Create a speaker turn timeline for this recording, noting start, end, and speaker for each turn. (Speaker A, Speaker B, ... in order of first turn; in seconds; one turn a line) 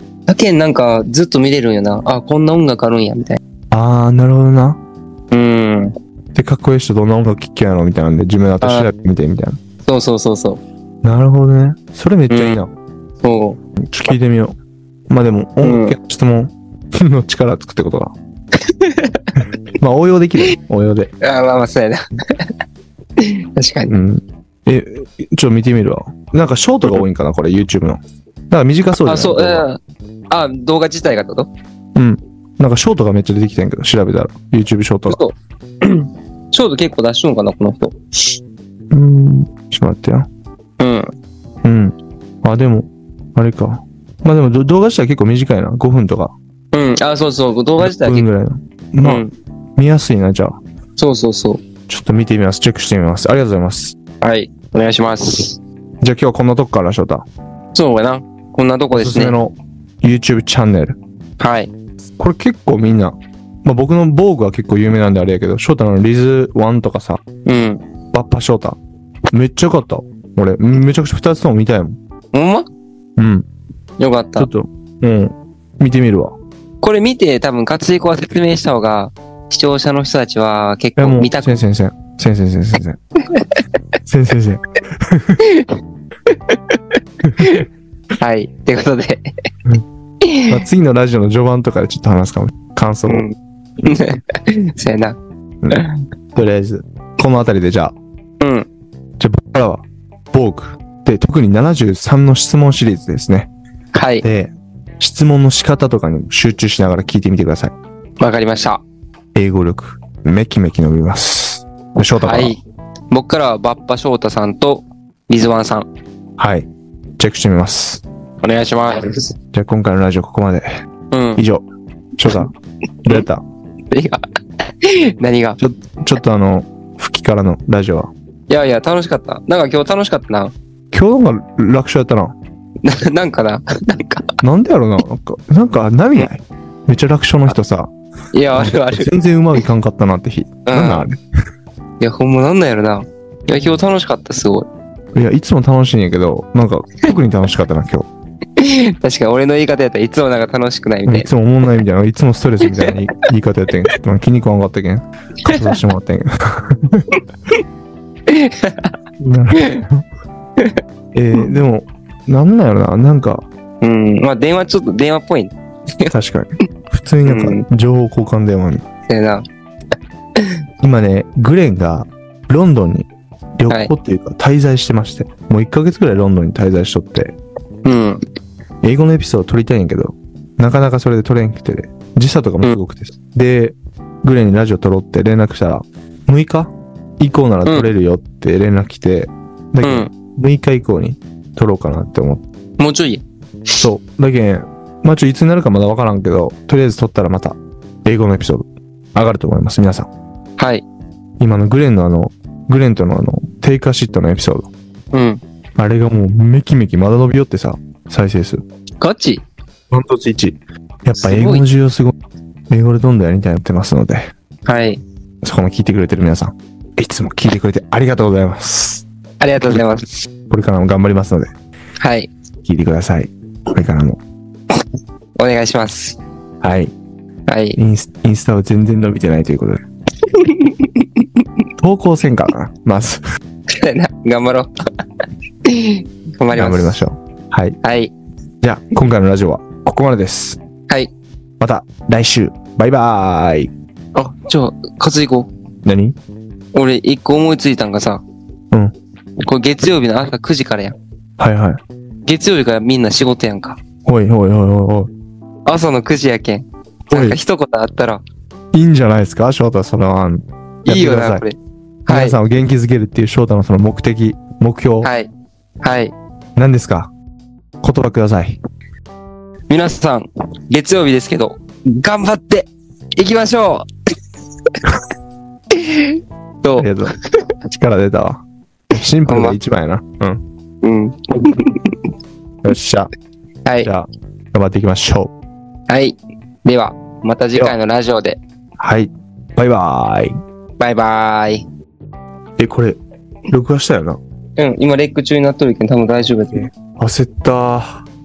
Speaker A: 0.3-3.4
Speaker B: 3.7-4.8
Speaker A: 5.3-5.9
Speaker B: 6.3-9.6
Speaker A: 8.6-8.9
Speaker A: 9.8-10.6
Speaker B: 11.0-12.7
Speaker A: 12.3-12.6
Speaker A: 13.2-13.6
Speaker B: 13.8-14.6
Speaker B: 15.1-18.1
Speaker A: 15.6-15.9
Speaker A: 18.6-19.4
Speaker B: 19.4-21.1
Speaker A: 21.2-22.5
Speaker A: 23.2-23.9
Speaker B: 23.9-29.7
Speaker A: 29.0-31.5
Speaker B: 31.9-35.2
Speaker A: 35.1-38.4
Speaker B: 38.9-40.3
Speaker A: 40.8-41.1
Speaker B: 41.6-46.3
Speaker A: 46.7-48.3
Speaker B: 47.8-50.6
Speaker A: 49.0-49.3
Speaker A: 51.0-51.6
Speaker B: 51.9-54.0
Speaker A: 54.2-55.6
Speaker B: 56.0-57.2
Speaker A: 57.7-59.4
Speaker B: 58.9-61.0
Speaker A: 61.4-61.7
Speaker B: 62.2-67.2
Speaker A: 67.5-67.8
Speaker B: 68.1-68.8
Speaker B: 69.3-72.0
Speaker A: 72.3-72.7
Speaker B: 73.2-73.4
Speaker A: 74.0-74.5
Speaker B: 74.3-76.3
Speaker A: 76.8-81.6
Speaker B: 81.0-83.0
Speaker B: 84.0-85.4
Speaker A: 85.4-85.7
Speaker A: 86.3-87.7
Speaker B: 87.2-87.6
Speaker A: 88.2-89.3
Speaker A: 90.2-90.5
Speaker B: 90.5-93.2
Speaker A: 93.1-95.2
Speaker A: 95.7-96.0
Speaker B: 96.3-97.9
Speaker A: 98.4-98.7
Speaker B: 99.2-103.5
Speaker A: 103.9-104.2
Speaker B: 104.2-107.7
Speaker A: 108.2-108.8
Speaker B: 109.3-112.5
Speaker A: 112.1-115.9
Speaker B: 116.4-118.0
Speaker A: 118.4-119.3
Speaker B: 119.5-120.7
Speaker A: 121.1-121.4
Speaker B: 121.4-121.6
Speaker B: 122.2-122.5
Speaker B: 123.0-123.4
Speaker A: 123.9-125.6
Speaker B: 125.6-128.1
Speaker A: 128.5-130.5
Speaker B: 130.9-132.3
Speaker A: 132.8-134.4
Speaker B: 134.4-137.9
Speaker A: 138.3-139.1
Speaker B: 138.5-141.2
Speaker A: 140.6-141.1
Speaker A: 142.0-144.7
Speaker B: 145.1-148.1
Speaker A: 148.6-151.3
Speaker B: 151.1-157.1
Speaker A: 152.7-153.0
Speaker A: 155.4-155.8
Speaker A: 158.3-158.9
Speaker B: 159.2-160.0
Speaker A: 159.6-159.8
Speaker B: 161.1-163.4
Speaker A: 163.8-166.1
Speaker B: 166.1-168.8
Speaker A: 167.2-167.6
Speaker A: 169.1-169.4
Speaker A: 170.3-170.6
Speaker B: 170.8-177.3
Speaker A: 177.8-178.2
Speaker B: 178.8-192.4
Speaker A: 189.8-190.1
Speaker A: 192.8-193.8
Speaker B: 193.8-200.1
Speaker A: 200.6-200.8
Speaker B: 201.4-204.7
Speaker A: 205.1-205.4
Speaker B: 205.8-208.6
Speaker A: 209.0-209.4
Speaker B: 209.9-212.1
Speaker A: 211.2-211.6
Speaker B: 212.7-214.3
Speaker A: 214.7-215.0
Speaker B: 215.4-219.0
Speaker A: 219.4-220.1
Speaker B: 220.5-221.5
Speaker A: 222.0-222.3
Speaker B: 222.6-224.2
Speaker A: 225.4-226.2
Speaker B: 226.6-226.9
Speaker A: 227.5-227.8
Speaker B: 227.8-229.8
Speaker A: 230.3-231.4
Speaker B: 231.8-233.2
Speaker A: 233.7-234.7
Speaker A: 235.6-237.0
Speaker B: 236.5-237.8
Speaker A: 237.8-238.1
Speaker B: 238.6-240.6
Speaker B: 241.6-243.7
Speaker A: 244.1-245.5
Speaker B: 245.8-246.2
Speaker A: 246.7-248.2
Speaker A: 249.4-250.9
Speaker B: 251.4-251.8
Speaker A: 252.3-253.8
Speaker B: 254.1-255.1
Speaker A: 255.7-258.2
Speaker B: 257.1-257.4
Speaker B: 258.7-261.4
Speaker A: 260.8-262.4
Speaker B: 262.1-265.1
Speaker A: 265.0-265.3
Speaker A: 265.8-266.1
Speaker B: 266.6-267.1
Speaker B: 267.8-268.6
Speaker A: 269.7-273.9
Speaker A: 275.7-277.4
Speaker B: 276.8-277.1
Speaker B: 277.7-280.4
Speaker A: 279.2-279.6
Speaker A: 280.8-282.0
Speaker B: 282.6-283.1
Speaker A: 283.6-283.9
Speaker B: 283.8-285.3
Speaker A: 285.9-288.4
Speaker B: 288.8-290.4
Speaker A: 290.8-291.6
Speaker B: 292.6-294.2
Speaker A: 294.6-296.7
Speaker B: 296.5-298.1